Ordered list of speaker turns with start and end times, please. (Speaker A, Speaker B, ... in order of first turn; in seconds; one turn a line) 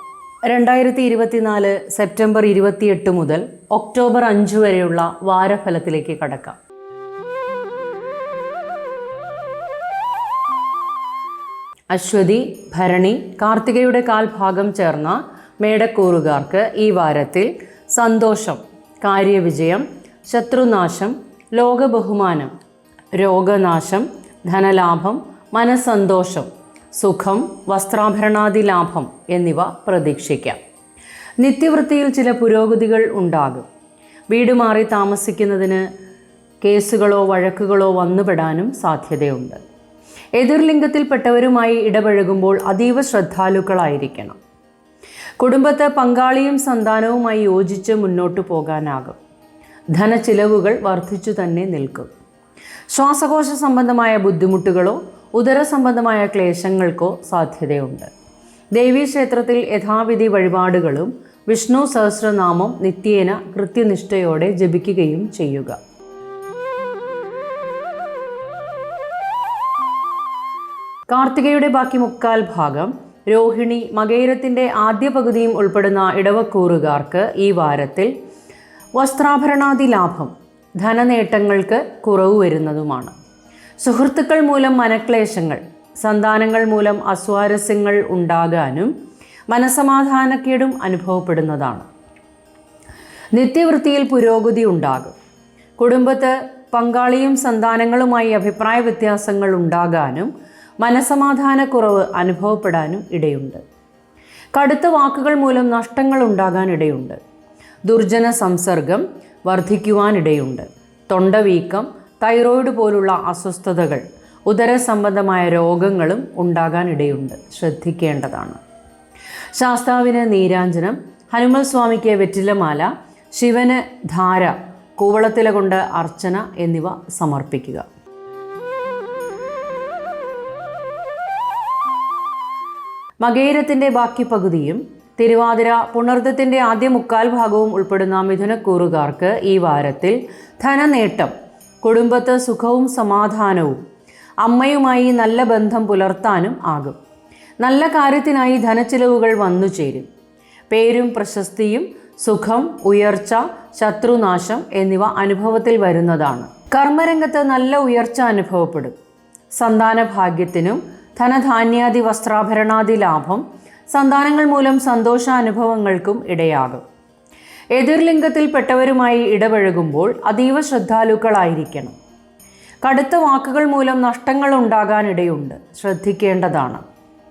Speaker A: 0.5-6.6
Speaker A: 11.9-22.5
Speaker A: 23.1-30.6
Speaker A: 31.4-33.6
Speaker A: 34.3-35.8
Speaker A: 36.6-39.6
Speaker A: 40.4-44.4
Speaker A: 45.4-49.2
Speaker A: 49.9-52.1
Speaker A: 52.9-58.1
Speaker A: 58.7-65.8
Speaker A: 71.1-78.1
Speaker A: 79.0-83.1
Speaker A: 83.8-88.9
Speaker A: 89.5-91.9
Speaker A: 93.3-95.1
Speaker A: 95.8-103.6
Speaker A: 104.5-107.2
Speaker A: 107.8-118.6
Speaker A: 119.5-127.8
Speaker A: 133.2-143.8
Speaker A: 144.4-147.0
Speaker A: 147.6-150.1
Speaker A: 150.7-158.9
Speaker A: 159.5-166.8
Speaker A: 167.7-171.9
Speaker A: 172.8-176.8